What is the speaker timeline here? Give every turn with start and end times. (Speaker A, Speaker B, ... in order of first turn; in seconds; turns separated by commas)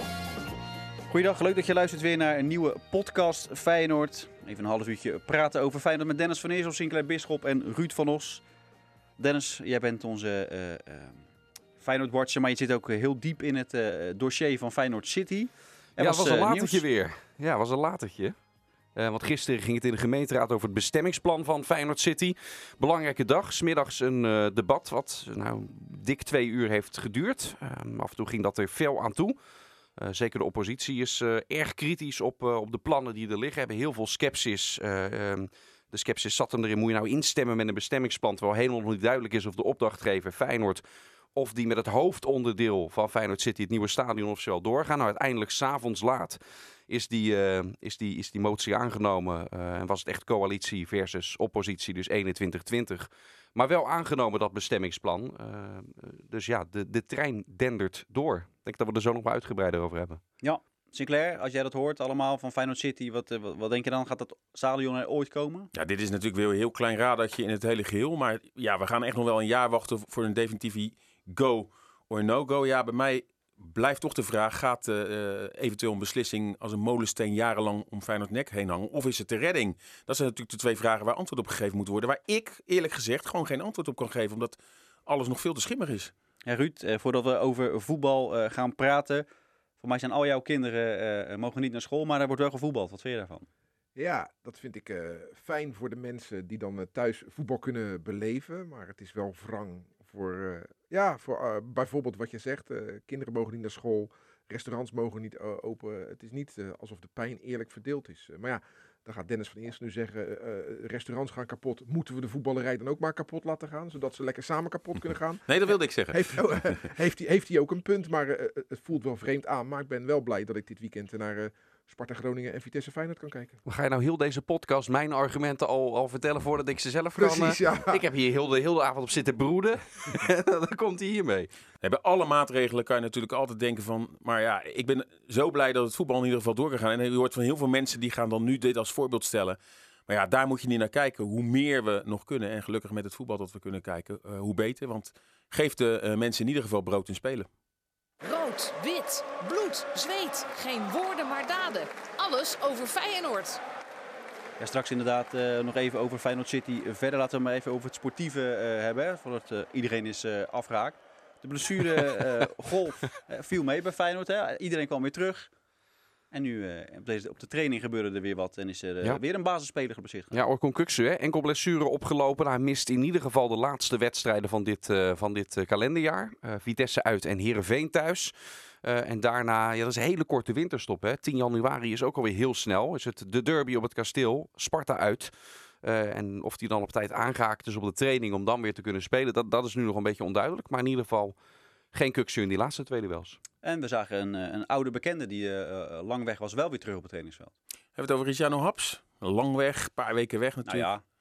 Speaker A: 1.1-8.4, Speaker A: 9.2-11.2, Speaker A: 11.8-16.8, Speaker B: 16.0-18.4, Speaker B: 18.9-29.4, Speaker B: 30.0-40.8, Speaker B: 41.4-60.2, Speaker A: 60.4-65.7, Speaker C: 65.7-86.1, Speaker A: 86.5-89.3, Speaker A: 89.8-93.5, Speaker D: 94.0-123.6, Speaker C: 115.5-116.7, Speaker B: 123.7-131.5, Speaker D: 127.2-128.0, Speaker C: 131.8-147.5, Speaker E: 148.2-153.6, Speaker A: 154.6-165.5, Speaker A: 166.3-170.3, Speaker B: 170.3-185.3, Speaker B: 185.8-191.3, Speaker B: 191.9-193.4, Speaker A: 193.6-197.5, Speaker C: 198.0-200.9, Speaker A: 200.7-201.0